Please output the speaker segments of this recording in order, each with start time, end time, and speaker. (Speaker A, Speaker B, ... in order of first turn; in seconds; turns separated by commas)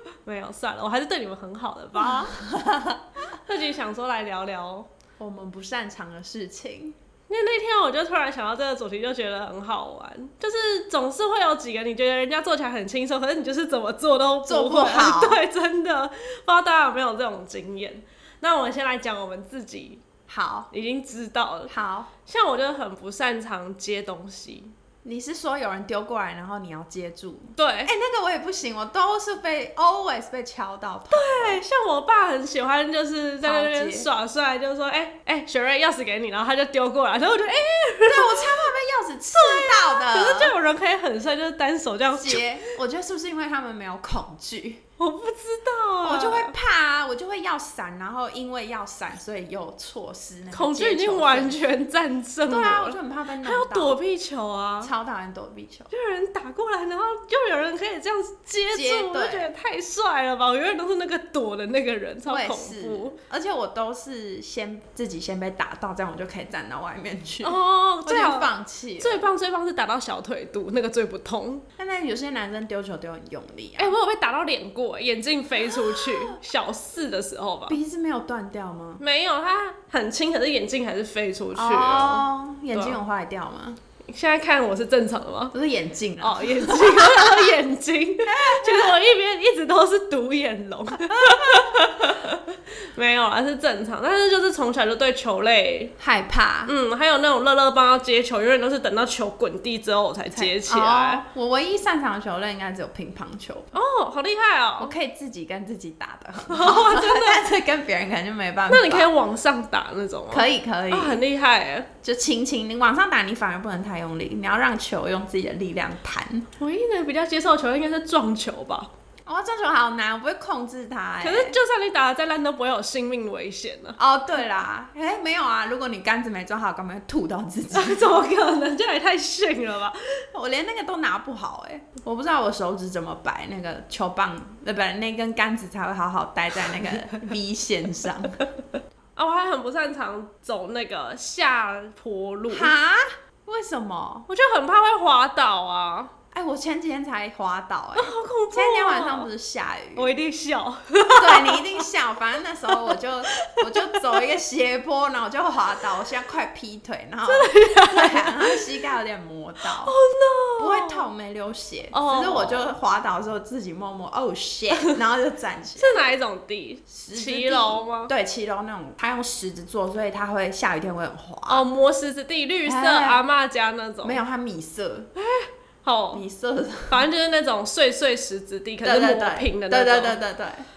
Speaker A: 0.2-2.4, Speaker B: 2.0-3.0, Speaker A: 3.4-4.9, Speaker B: 5.2-7.0, Speaker A: 7.3-20.0, Speaker B: 14.4-15.4, Speaker B: 20.3-20.7, Speaker A: 20.7-21.7, Speaker B: 21.7-22.1, Speaker A: 22.3-24.7, Speaker B: 25.1-31.6, Speaker A: 27.6-27.9, Speaker A: 31.1-38.7, Speaker B: 33.4-34.1, Speaker B: 38.1-40.5, Speaker A: 39.4-42.7, Speaker B: 42.1-44.8, Speaker A: 45.0-46.5, Speaker B: 46.0-51.7, Speaker A: 50.5-54.9, Speaker B: 52.5-54.0, Speaker B: 54.8-55.9, Speaker A: 55.9-63.2, Speaker B: 58.7-59.5, Speaker B: 62.3-69.2, Speaker A: 67.4-71.7, Speaker B: 71.8-73.9, Speaker A: 73.8-77.8, Speaker B: 75.7-76.4, Speaker B: 77.7-79.0, Speaker A: 79.0-83.0, Speaker B: 81.5-83.8, Speaker A: 84.0-85.5, Speaker B: 85.5-87.5, Speaker A: 86.2-96.0, Speaker B: 88.3-89.0, Speaker B: 91.1-91.7, Speaker B: 96.0-96.7, Speaker A: 96.7-101.2, Speaker B: 100.3-103.7, Speaker A: 103.7-104.9, Speaker B: 104.8-109.1, Speaker A: 106.5-107.4, Speaker A: 108.7-111.9, Speaker B: 110.3-111.2, Speaker B: 112.0-116.5, Speaker A: 116.6-118.9, Speaker B: 119.3-121.6, Speaker A: 121.2-124.0, Speaker B: 124.0-128.1, Speaker A: 127.7-130.0, Speaker B: 130.3-138.4, Speaker A: 139.2-142.7, Speaker B: 142.5-144.3, Speaker A: 144.3-146.1, Speaker B: 146.3-150.1, Speaker A: 148.0-149.3, Speaker A: 149.9-151.8, Speaker B: 151.2-159.9, Speaker A: 152.8-154.0, Speaker A: 157.3-158.6, Speaker A: 159.8-161.1, Speaker B: 160.6-166.0, Speaker A: 161.9-162.7, Speaker A: 165.8-168.1, Speaker B: 166.9-171.6, Speaker A: 171.5-174.2, Speaker B: 172.7-173.2, Speaker B: 174.0-175.1, Speaker A: 175.2-176.2, Speaker B: 176.1-177.0, Speaker A: 176.9-180.2, Speaker B: 178.8-180.7